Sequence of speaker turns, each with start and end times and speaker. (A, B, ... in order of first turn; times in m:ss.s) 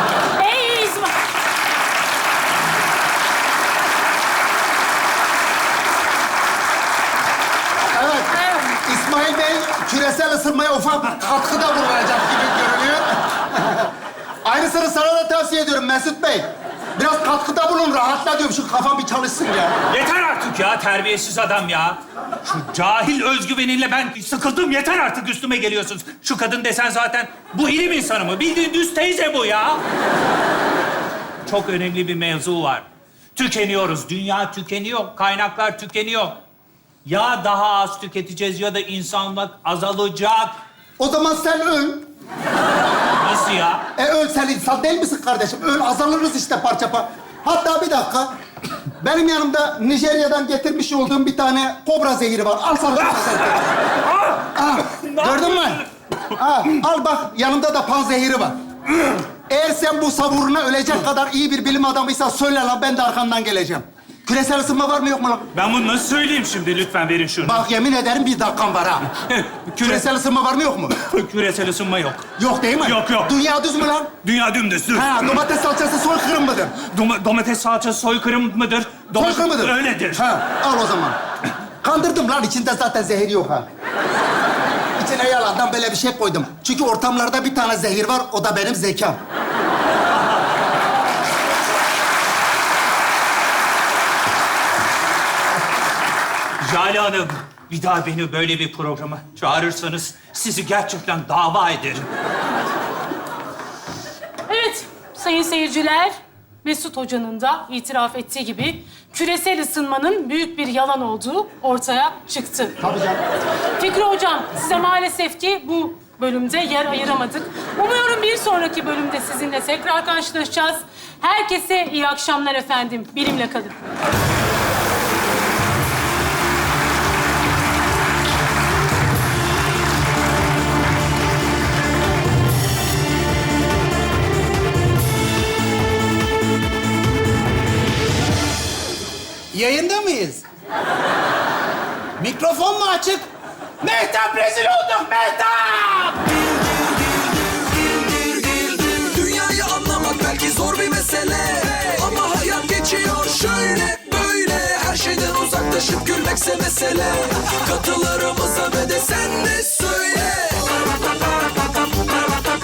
0:00.4-0:01.2 A
0:07.9-0:13.9 B
0:14.4-0:19.8 B
0:19.9-0:29.8 C
0:31.5-0:36.4 C
0:37.0-0:40.6 C
0:41.0-0:42.1 B
0:43.2-0:43.8 C
0:44.0-0:48.3 B
0:49.0-0:53.7 B
0:54.1-0:55.9 C
0:54.6-0:55.8 B
0:56.4-0:58.6 B
0:59.5-1:05.5 B
1:05.5-1:07.6 C
1:07.4-1:09.1 B
1:09.1-1:10.1 C
1:09.8-1:11.0 B
1:11.0-1:12.3 C
1:12.4-1:14.1 B
1:12.8-1:13.4 C
1:14.2-1:15.4 C
1:14.9-1:16.8 B
1:16.8-1:20.3 C
1:19.2-1:21.2 B
1:21.8-1:23.7 B
1:25.0-1:29.2 B
1:36.6-1:42.1 C
1:44.5-1:52.8 A
1:52.8-1:53.2 B
1:53.8-2:03.8 A
2:19.5-2:20.4 D
2:22.2-2:23.3 D
2:23.8-2:26.2 D
2:28.1-2:29.1 D
2:29.1-2:40.6 E